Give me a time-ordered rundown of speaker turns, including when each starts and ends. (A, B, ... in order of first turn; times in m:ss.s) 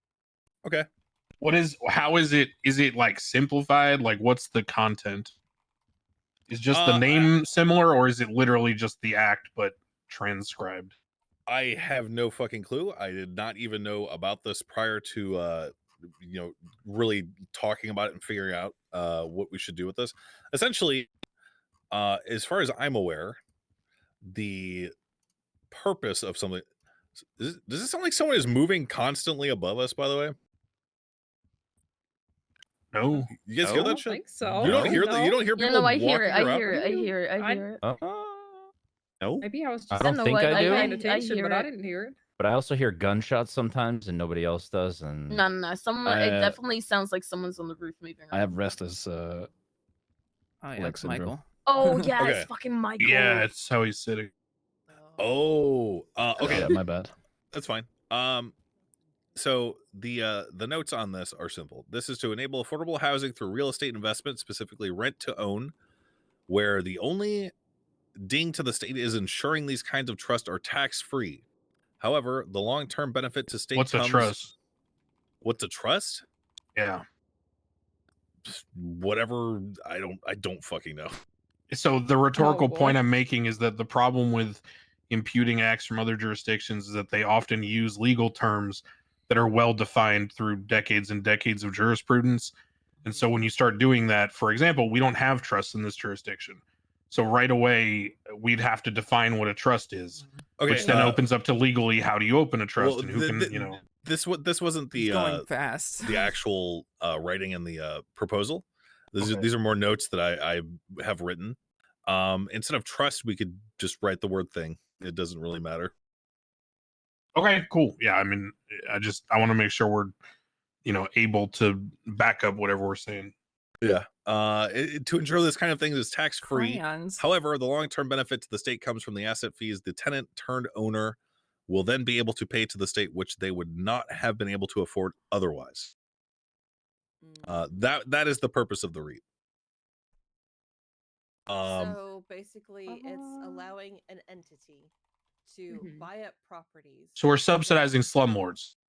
0:01.4-0:05.3 A
0:06.5-0:10.9 A
0:06.7-0:07.4 B
0:11.5-0:21.1 B
0:21.9-0:23.4 B
0:24.2-0:24.9 B
0:25.7-0:26.6 B
0:27.4-0:30.4 B
0:32.9-0:33.3 A
0:33.4-0:36.7 B
0:33.6-0:33.9 C
0:33.7-0:35.5 D
0:34.5-0:35.0 C
0:35.6-0:37.8 E
0:36.7-0:37.6 D
0:37.8-0:38.4 C
0:39.2-0:40.9 C
0:39.4-0:42.2 D
0:40.0-0:41.7 E
0:42.4-0:45.4 C
0:45.3-0:48.5 E
0:46.0-0:46.6 F
0:48.3-0:49.5 F
0:50.6-0:52.1 G
0:50.8-0:51.4 F
0:51.7-0:53.5 E
0:52.2-0:52.5 B
0:53.0-0:54.3 A
0:54.9-0:55.5 H
0:55.2-0:56.7 B
0:56.4-0:57.1 F
0:57.5-0:58.6 B
0:59.4-1:05.7 B
1:06.5-1:07.5 B
1:08.2-1:11.4 B
1:12.0-1:14.4 B
1:13.8-1:14.5 A
1:15.4-1:16.2 B
1:16.8-1:17.0 A
1:18.5-1:21.2 B
1:21.7-1:43.8 A
1:22.4-1:23.0 D
1:40.6-1:41.2 B
1:42.8-1:45.5 B
1:45.0-1:46.2 G
1:46.0-1:55.9 B
1:49.2-1:49.4 A
1:57.4-2:00.2 A
2:00.8-2:03.3 A
2:03.8-2:11.2 B
2:06.5-2:07.2 G
2:11.7-2:15.9 B
2:17.2-2:17.7 H
2:17.4-2:19.2 B
2:21.5-2:22.0 B
2:21.6-2:24.9 H
2:23.0-2:23.6 D
2:25.5-2:28.1 H
2:25.7-2:26.0 D
2:27.2-2:28.7 A